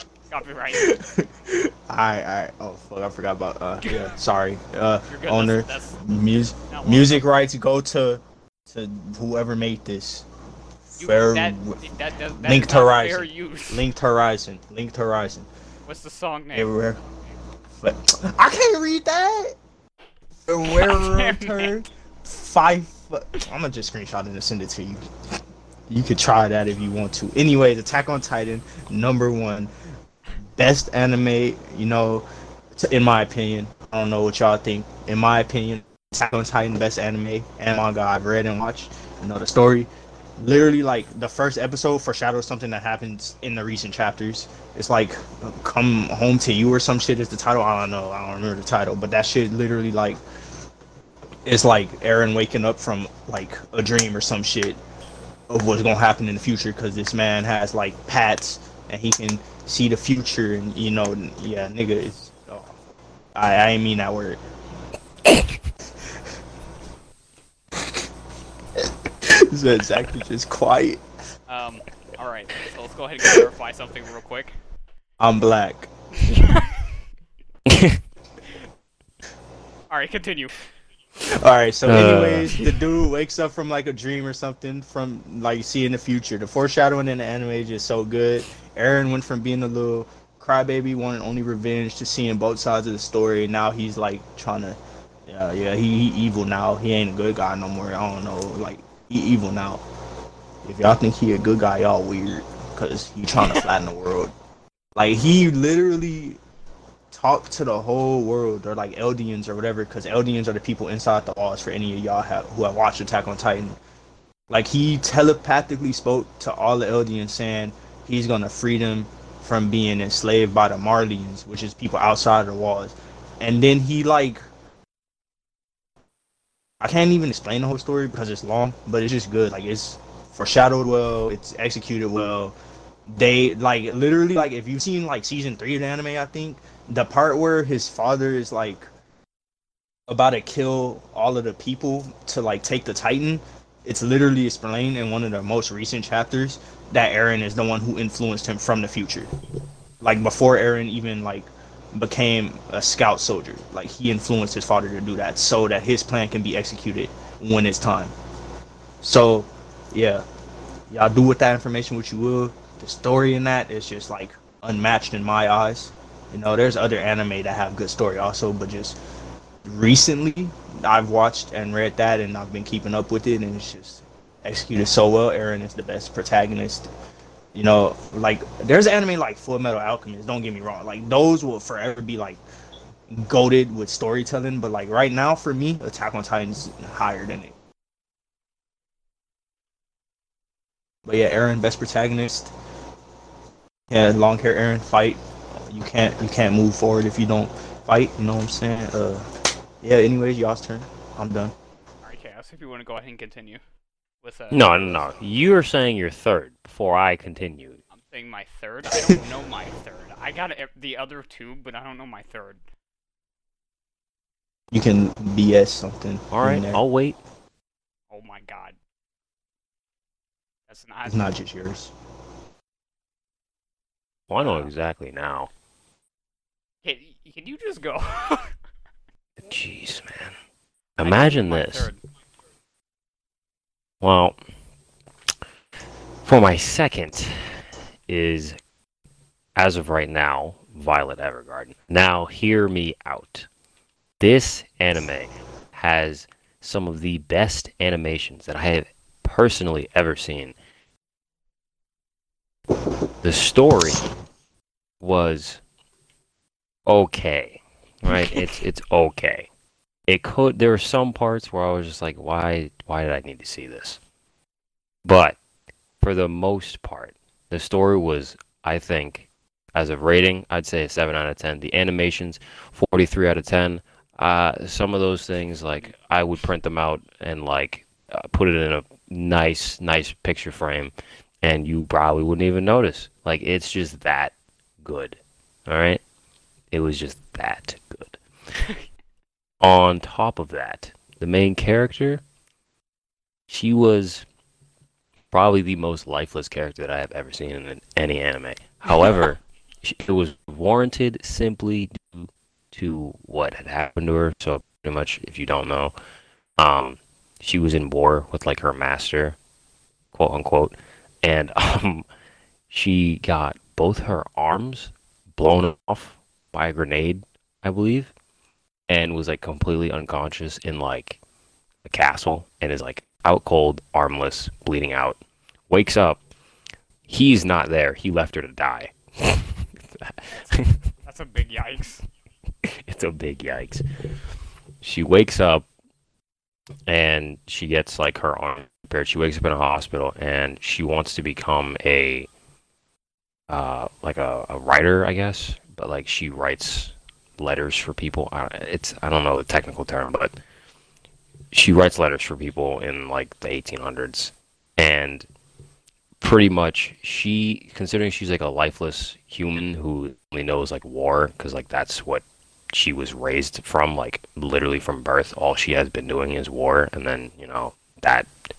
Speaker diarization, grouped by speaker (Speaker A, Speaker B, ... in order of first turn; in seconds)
Speaker A: 0.3-0.9, 3.8-4.2, 5.1-6.0, 6.7-7.2, 11.0-13.9, 15.9-16.7, 20.7-21.7, 71.5-74.5, 76.2-77.0, 79.9-80.6, 82.5-82.8, 103.4-103.7, 202.0-203.6, 204.2-205.2, 207.9-212.6, 218.1-218.8, 220.7-221.3, 224.4-224.7, 226.8-228.6, 231.0-232.0, 288.6-288.9, 298.9-299.3, 330.3-332.1
Speaker B: 0.7-10.3, 10.9-11.8, 12.3-15.5, 16.5-17.0, 17.8-19.6, 20.4-25.0, 25.9-29.7, 30.6-50.2, 51.5-54.8, 55.5-62.8, 63.4-64.4, 68.8-71.0, 75.2-75.9, 81.3-99.8, 100.6-104.3, 105.0-106.4, 107.1-113.8, 114.5-124.4, 126.8-132.6, 133.1-138.9, 140.1-149.3, 150.0-158.1, 159.0-160.2, 160.9-169.0, 169.7-176.9, 177.5-182.4, 183.1-187.6, 191.1-192.5, 193.9-199.3, 199.8-201.6, 208.9-209.2, 214.7-216.8, 221.1-221.9
Speaker C: 77.7-78.0, 81.9-82.5, 204.5-207.8, 216.3-217.2, 224.3-225.5, 229.4-230.3, 231.0-231.9, 234.0-234.4, 236.2-238.6, 239.6-243.5, 244.2-250.6, 253.2-254.0, 255.0-255.6, 256.9-259.5, 260.1-264.0, 265.1-265.4, 266.0-286.0, 286.7-288.2, 289.6-292.2, 293.5-294.2, 295.3-305.9, 306.6-309.4, 310.1-312.1, 312.7-318.1, 318.9-321.2, 321.9-326.2, 327.1-330.8, 332.6-333.8, 334.8-335.7, 336.9-342.3, 343.5-350.4, 351.5-355.3, 356.2-368.3